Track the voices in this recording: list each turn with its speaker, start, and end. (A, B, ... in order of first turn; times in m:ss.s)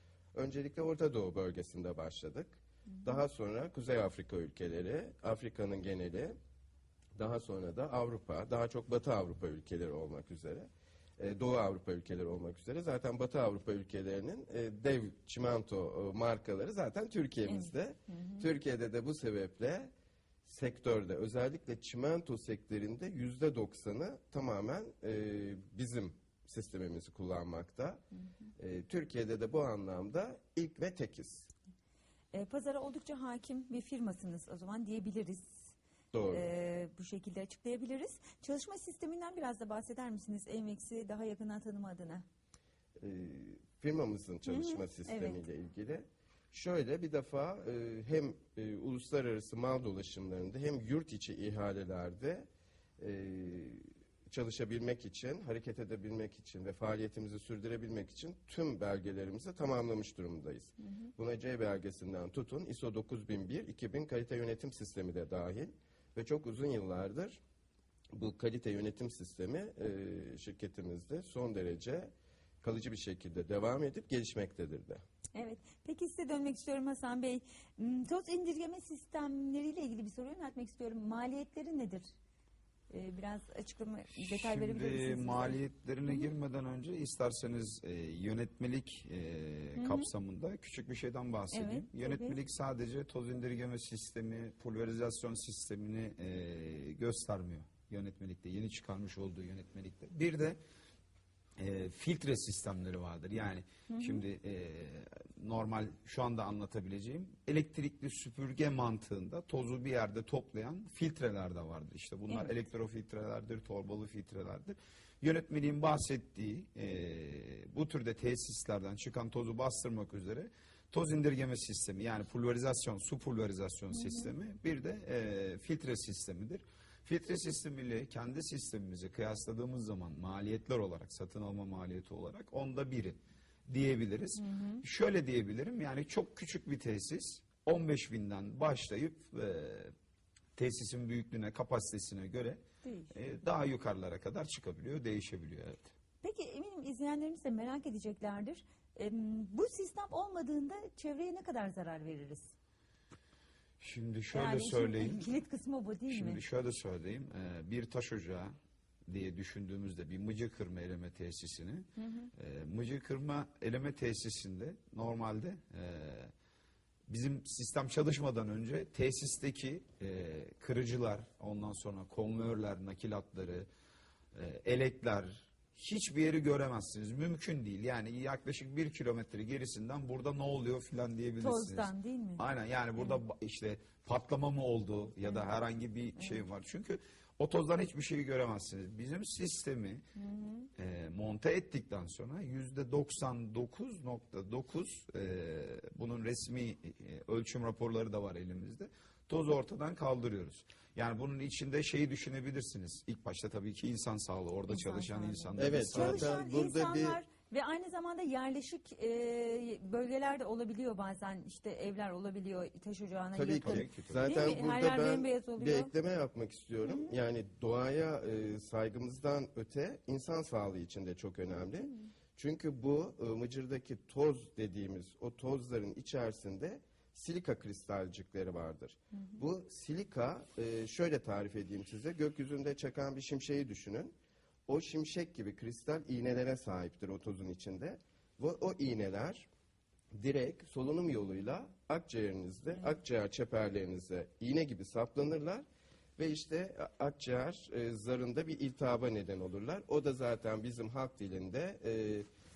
0:00.3-0:06.4 A
0:07.1-0:19.9 A
0:17.5-0:18.4 B
0:20.4-0:28.0 A
0:28.6-0:31.5 A
0:32.3-0:35.7 B
0:36.1-0:36.4 A
0:36.3-0:42.2 B
0:43.0-0:52.5 A
0:44.4-0:45.4 B
0:53.0-1:07.4 A
1:08.1-1:15.0 A
1:15.3-1:22.0 B
1:22.9-1:26.2 B
1:24.1-1:40.6 C
1:29.8-1:30.1 B
1:31.5-1:32.4 B
1:41.6-2:19.9 C
1:43.9-1:44.2 B
1:52.3-1:52.5 B
2:14.4-2:14.8 B
2:20.6-2:25.9 C
2:22.8-2:23.1 B
2:26.2-2:32.5 B
2:33.8-2:35.2 C
2:34.3-2:36.4 B
2:36.1-2:38.5 C
2:39.1-2:46.3 C
2:42.0-2:42.3 B
2:47.1-2:53.7 C
2:54.3-3:10.0 C
3:01.4-3:02.4 B
3:10.2-3:10.7 B
3:10.8-3:26.4 C
3:24.7-3:35.9 B
3:25.6-3:27.2 A
3:33.3-3:54.1 A
3:33.6-3:34.4 C
3:36.8-3:37.1 B
3:54.7-3:59.5 A
4:00.1-4:05.6 A
4:06.2-4:12.3 A